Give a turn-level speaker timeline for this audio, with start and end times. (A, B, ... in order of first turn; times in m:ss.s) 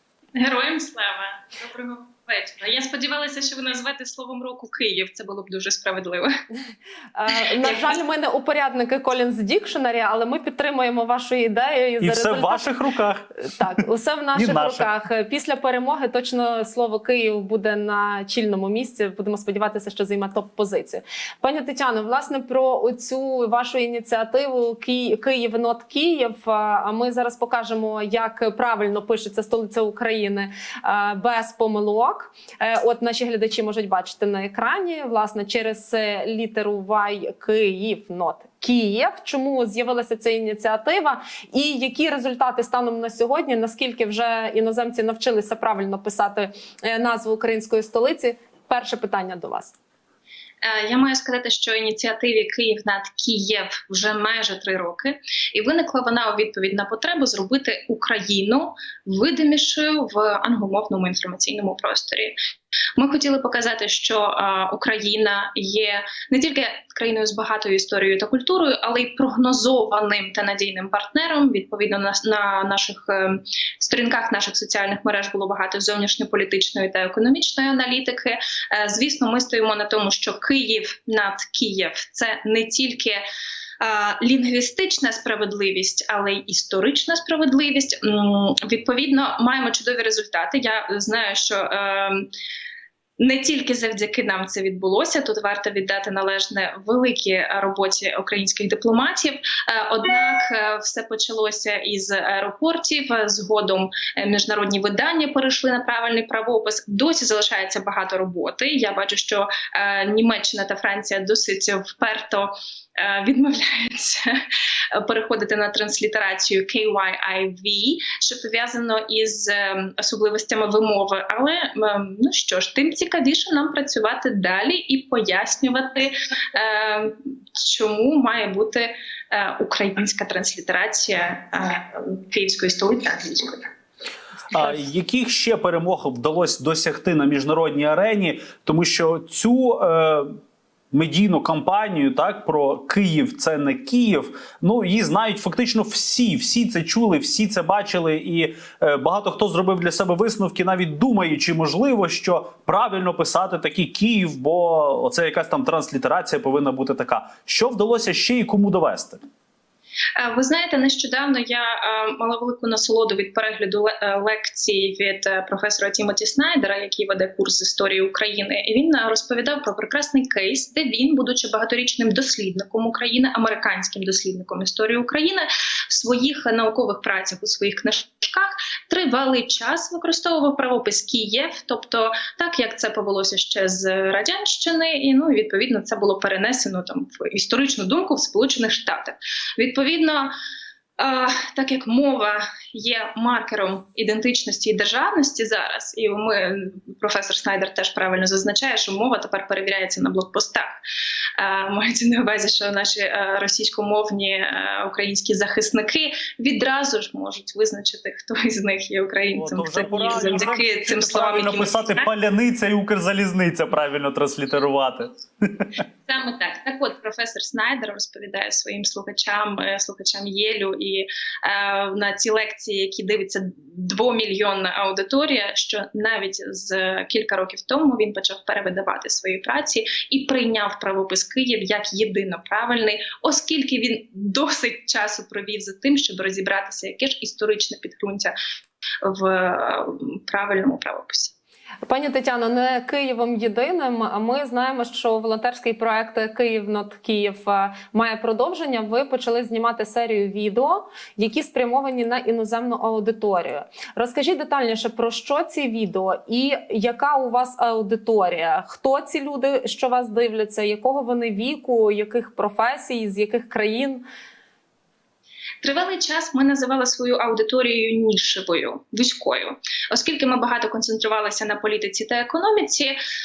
0:00.4-0:06.3 A
0:07.2-0:12.6 B
0:07.3-0:08.0 A
0:12.0-0:13.3 C
0:13.5-0:49.7 B
0:14.3-0:14.9 C
0:50.6-1:02.3 A
1:03.0-1:23.2 A
1:23.8-1:32.3 A
1:33.2-1:54.4 A
1:55.0-2:13.7 A
2:14.5-2:20.3 C
2:20.9-2:39.2 C
2:40.2-3:10.3 A
3:11.0-3:20.7 A
3:21.4-3:32.1 A
3:29.4-3:35.6 C
3:36.0-3:58.3 A
3:59.0-4:01.3 A
4:01.8-4:24.0 B
4:25.6-4:33.0 A